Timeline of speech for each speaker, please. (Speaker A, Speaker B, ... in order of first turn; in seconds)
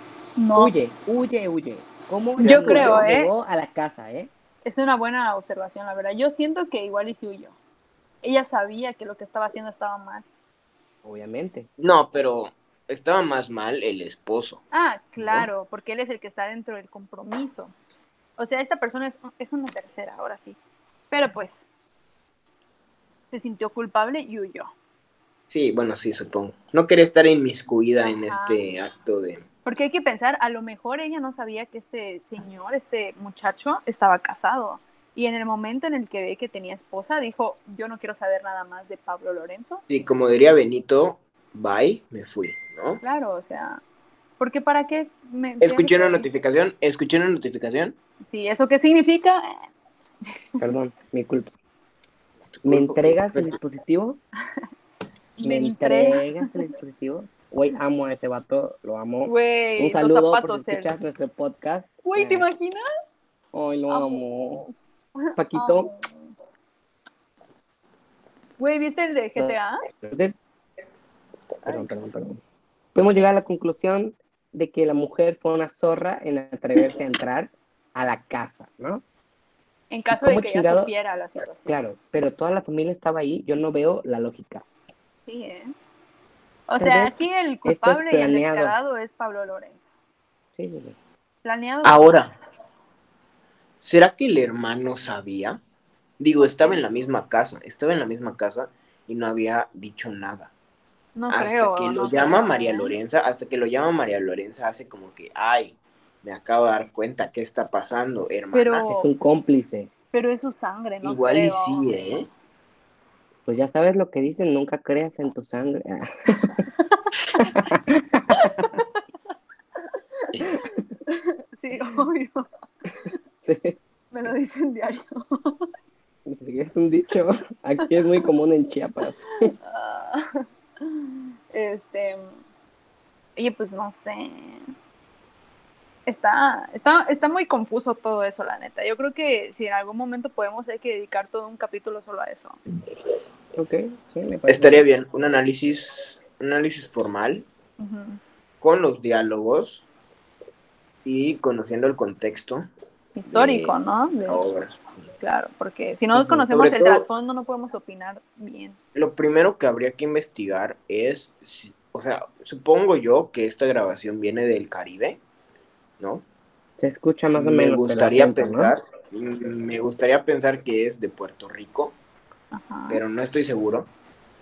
Speaker A: 0.4-0.7, 2.4-3.3, 4.6-7.5, 8.2-10.2, 14.7-17.7, 18.4-20.6, 21.1-21.7, 23.3-24.7, 28.3-28.6, 29.6-39.8, 43.0-43.8, 44.4-46.3, 48.2-49.5, 55.4-56.5, 59.2-60.9, 62.0-62.8, 63.9-64.2, 65.2-66.3, 68.6-69.8, 79.9-81.7, 85.3-85.7, 86.7-89.9, 91.4-92.2, 96.4-96.8, 101.1-102.9, 108.5-109.1, 110.1-111.9, 116.8-117.6, 118.3-119.0, 121.1-122.5, 124.1-125.7, 129.6-132.3, 133.4-134.7, 136.1-142.6, 147.8-148.2, 153.2-154.4, 155.2-158.8, 172.5-173.0
Speaker B: 0.5-4.3, 11.0-11.7, 50.6-51.5, 52.6-54.2, 55.4-62.5, 63.5-64.7, 65.3-65.9, 69.4-70.4, 71.6-72.4, 72.9-79.0, 80.1-80.9, 81.7-84.7, 86.8-88.7, 90.6-91.0, 108.9-109.9, 113.5-116.6, 117.4-118.8, 120.5-120.8, 123.4-123.8, 126.2-129.5, 143.5-144.8, 166.8-168.7
Speaker C: 2.5-3.0, 11.8-14.6, 15.2-15.5, 25.5-29.4, 39.9-43.0, 45.6-48.0, 52.5-53.6, 91.8-92.3, 93.8-95.6, 96.2-100.5, 101.3-108.9, 111.0-112.3, 144.5-147.5, 148.6-149.8, 151.0-152.7, 153.3-153.7, 154.3-155.1, 156.2-157.1, 158.9-165.2, 166.0-166.2, 167.3-172.0, 172.9-173.9